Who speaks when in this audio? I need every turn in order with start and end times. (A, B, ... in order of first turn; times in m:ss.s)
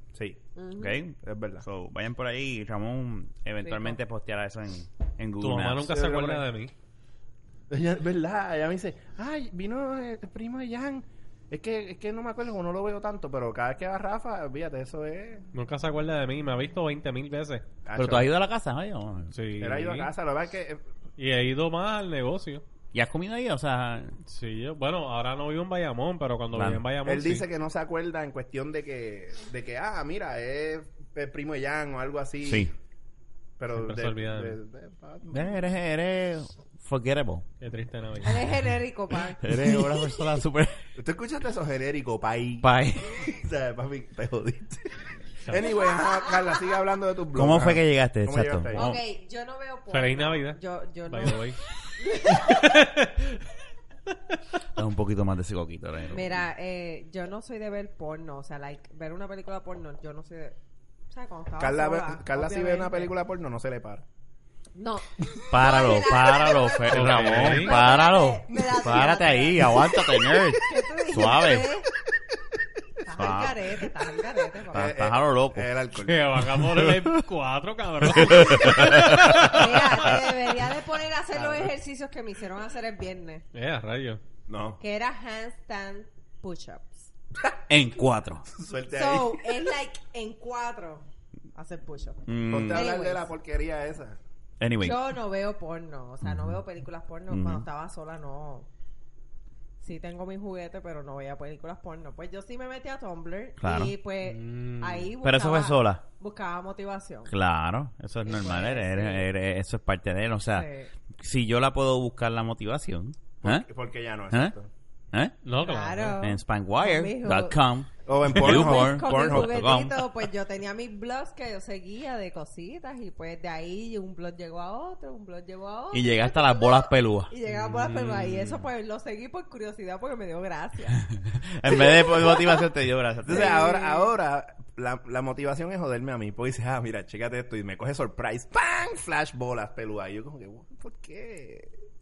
0:00.1-0:00.4 A
0:00.6-0:01.0 B
0:00.8-0:06.0 C
0:01.2-0:01.6 A
0:03.6-0:04.0 B
0:05.4-0:06.7 D
0:05.9-0:06.5 A
0:07.7-0:15.4 A
0:15.5-0:17.6 D
0:17.8-0:18.3 A
0:18.0-0:19.3 C
0:19.3-0:20.1 D
0:19.6-0:20.8 A
0:21.2-0:22.6 D
0:22.9-0:24.2 C
0:24.2-0:27.4 D
0:26.5-0:26.8 C
0:27.0-0:32.7 A
0:32.4-0:32.7 C
0:33.6-0:35.6 A
0:33.7-0:34.6 D
0:35.3-0:37.4 C
0:37.6-0:38.5 D
0:38.2-0:39.6 B
0:39.4-0:40.8 C
0:41.0-0:48.9 A
0:42.6-0:43.2 C
0:45.6-0:46.7 B
0:47.3-0:49.0 C
0:48.7-0:51.4 B
0:49.9-0:51.6 D
0:52.0-0:52.8 B
0:52.4-0:53.3 D
0:54.7-0:56.4 C
0:56.1-1:00.6 B
1:01.1-1:03.1 B
1:01.6-1:04.0 A
1:04.7-1:11.9 B
1:05.5-1:11.7 C
1:06.8-1:07.8 D
1:08.5-1:08.8 A
1:13.0-1:15.0 B
1:13.1-1:13.6 C
1:14.7-1:15.7 C
1:14.7-1:16.4 A
1:16.0-1:20.2 D
1:16.6-1:17.2 C
1:18.1-1:20.2 C
1:19.3-1:23.4 B
1:21.3-1:21.7 A
1:23.5-1:24.2 D
1:24.5-1:24.8 A
1:24.8-1:27.1 B
1:27.7-1:28.5 C
1:28.5-1:29.7 A
1:28.9-1:33.3 B
1:32.2-1:32.9 C
1:32.5-1:34.2 A
1:34.6-1:35.0 C
1:34.8-1:38.7 B
1:36.2-1:36.6 C
1:37.3-1:37.6 C
1:39.8-1:47.3 B
1:43.6-1:43.9 C
1:44.2-1:45.1 D
1:45.2-1:46.0 C
1:47.3-1:53.6 C
1:48.2-1:49.2 B
1:50.5-1:50.9 B
1:53.4-1:54.7 A
1:55.4-1:56.2 D
1:55.6-1:57.6 B
1:56.2-2:00.1 C
1:58.0-1:59.8 A
1:58.3-2:11.1 B
2:05.9-2:07.3 C
2:07.4-2:08.6 D
2:11.3-2:13.6 C
2:13.2-2:21.7 A
2:13.3-2:14.1 B